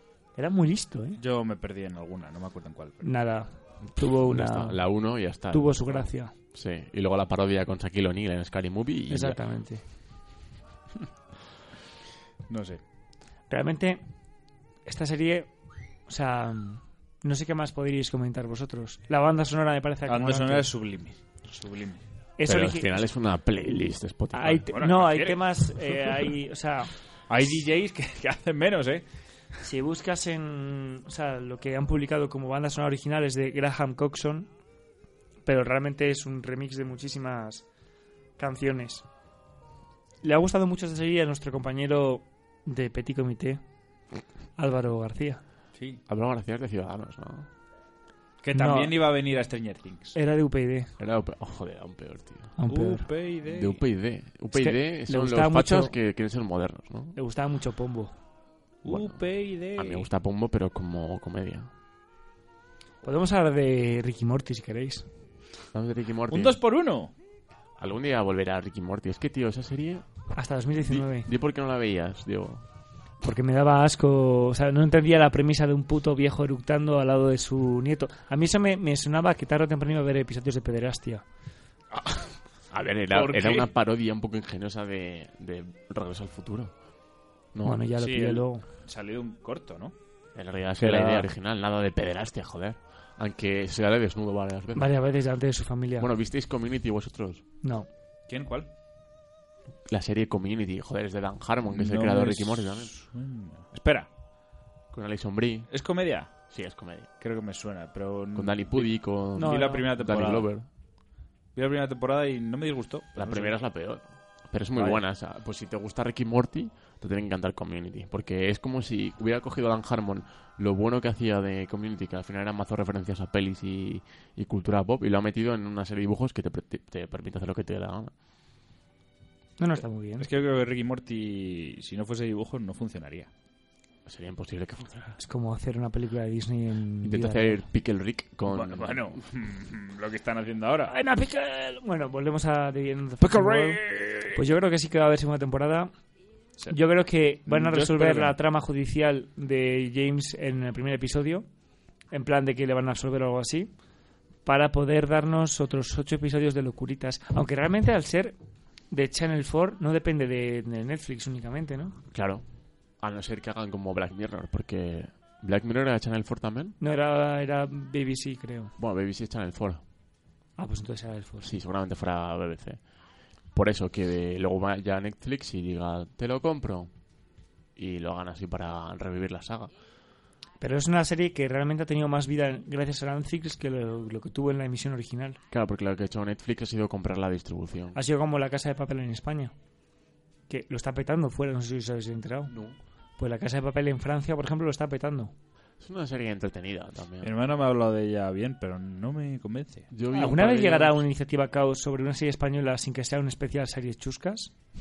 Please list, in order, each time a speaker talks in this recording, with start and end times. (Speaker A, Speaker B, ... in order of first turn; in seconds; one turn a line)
Speaker A: 0.3-1.2
Speaker B: 1.2-3.2
Speaker A: 3.0-4.8
Speaker C: 4.0-9.4
Speaker A: 5.5-6.3
Speaker A: 9.1-9.8
Speaker B: 12.5-12.8
Speaker A: 13.5-14.0
Speaker A: 14.8-15.5
Speaker A: 16.1-20.7
Speaker B: 20.1-22.0
Speaker A: 22.4-23.0
Speaker C: 22.4-24.7
Speaker A: 24.3-26.9
Speaker B: 24.7-26.1
Speaker B: 27.3-29.0
Speaker A: 29.6-34.5
Speaker A: 35.4-37.7
Speaker A: 38.4-39.0
Speaker A: 40.2-43.6
Speaker A: 44.6-45.4
Speaker B: 45.7-46.0
Speaker C: 46.1-47.5
Speaker B: 48.4-50.2
Speaker A: 48.5-49.0
Speaker A: 50.1-50.9
Speaker C: 51.0-52.5
Speaker A: 52.6-53.1
Speaker B: 52.7-53.8
Speaker C: 53.5-57.1
Speaker A: 54.5-55.9
Speaker A: 57.1-58.1
Speaker B: 58.8-60.1
Speaker C: 58.9-59.2
Speaker C: 59.8-61.7
Speaker A: 63.0-65.0
Speaker C: 65.7-66.6
Speaker B: 66.3-67.1
Speaker C: 67.8-70.0
Speaker A: 70.3-71.3
Speaker C: 70.8-72.6
Speaker A: 73.2-81.2
Speaker B: 81.9-82.4
Speaker C: 82.7-86.7
Speaker B: 83.1-83.7
Speaker C: 87.5-87.9
Speaker A: 87.6-88.6
Speaker B: 88.0-89.9
Speaker C: 90.3-94.9
Speaker B: 90.8-91.3
Speaker A: 94.8-96.1
Speaker C: 96.0-97.4
Speaker A: 97.6-97.9
Speaker B: 98.3-98.7
Speaker C: 99.9-102.9
Speaker B: 101.7-104.1
Speaker C: 104.9-105.7
Speaker B: 105.7-106.3
Speaker C: 106.5-107.1
Speaker B: 107.2-110.5
Speaker C: 108.3-110.7
Speaker A: 109.3-109.8
Speaker B: 111.5-113.6
Speaker C: 113.2-128.1
Speaker B: 114.7-115.0
Speaker A: 129.6-130.2
Speaker B: 130.2-133.3
Speaker C: 134.0-135.2
Speaker A: 135.2-137.6
Speaker C: 137.0-139.2
Speaker B: 138.5-140.9
Speaker A: 140.9-145.9
Speaker B: 143.2-144.4
Speaker A: 146.7-151.4
Speaker B: 147.4-148.3
Speaker A: 152.1-153.7
Speaker A: 154.4-158.3
Speaker A: 158.9-161.9
Speaker C: 162.1-162.4
Speaker C: 163.0-166.8
Speaker A: 166.8-168.7
Speaker C: 168.8-169.8
Speaker A: 170.6-171.5
Speaker C: 171.4-172.8
Speaker C: 173.5-176.9
Speaker C: 177.8-179.7
Speaker A: 180.6-185.4
Speaker C: 185.5-188.0
Speaker A: 187.9-189.5
Speaker A: 190.5-192.5
Speaker C: 192.5-192.8
Speaker A: 193.2-195.3
Speaker C: 195.8-197.3
Speaker B: 197.2-199.9
Speaker C: 199.9-201.0
Speaker A: 200.1-204.5